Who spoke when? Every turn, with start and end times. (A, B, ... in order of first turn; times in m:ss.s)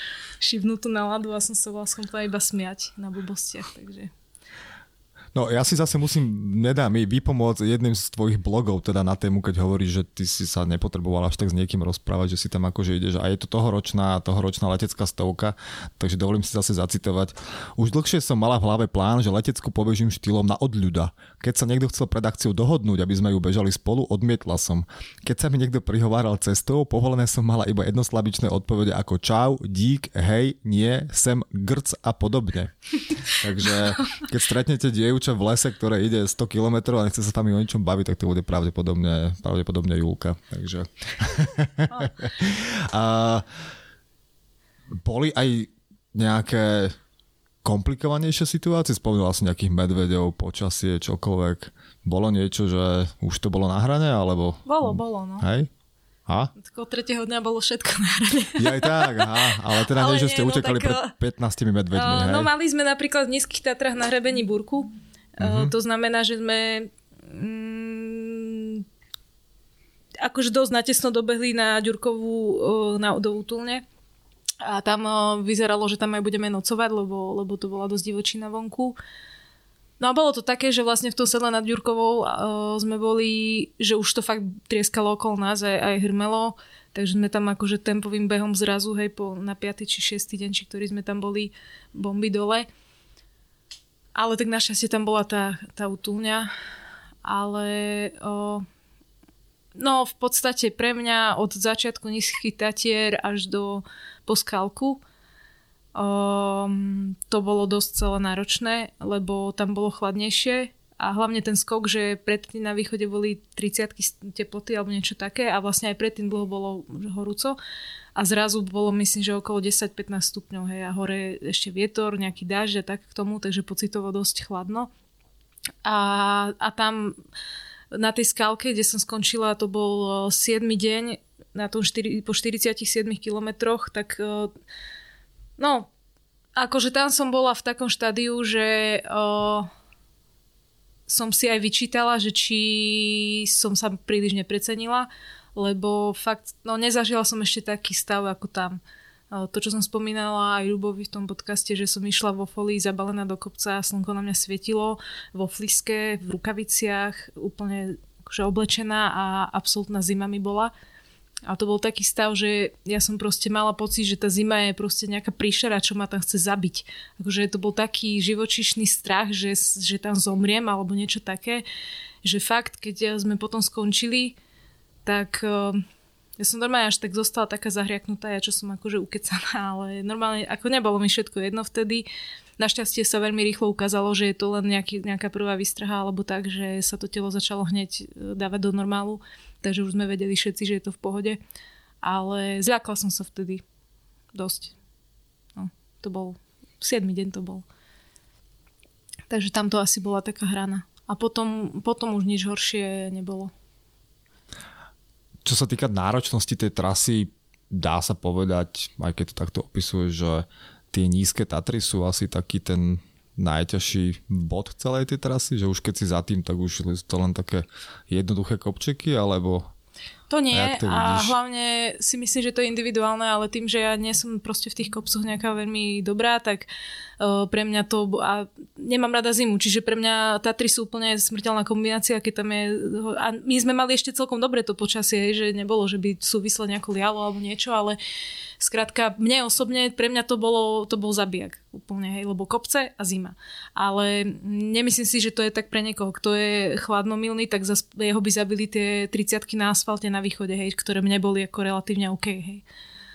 0:00.4-0:04.1 A
0:05.3-0:32.7 B
0:33.3-0:43.4 B
0:45.0-0:47.0 B
0:47.6-0:55.7 B
0:54.7-0:55.5 A
0:56.3-0:56.5 B
0:56.6-1:01.1 A
0:58.6-1:02.5 B
1:01.9-1:08.8 A
1:05.4-1:05.7 B
1:10.2-1:13.8 A
1:14.6-1:19.0 A
1:20.0-1:32.7 A
1:34.2-1:36.5 A
1:37.2-1:38.7 A
1:39.8-1:45.0 A
1:46.0-1:57.6 A
1:58.2-2:04.9 A
2:05.8-2:07.2 A
2:07.9-2:14.5 A
2:15.6-2:15.9 A
2:16.6-2:19.7 A
2:21.1-2:28.8 A
2:29.3-2:40.7 A
2:41.5-2:51.6 A
2:52.2-2:54.4 A
2:55.0-2:55.8 A
2:56.4-3:02.1 A
3:02.6-3:11.4 A
3:12.0-3:13.6 A
3:14.3-3:14.8 A
3:15.6-3:17.6 A
3:19.3-3:23.5 A
3:25.4-3:39.7 B
3:40.3-3:46.7 A
3:40.5-3:41.4 B
3:47.2-3:58.0 A
3:58.6-4:12.6 A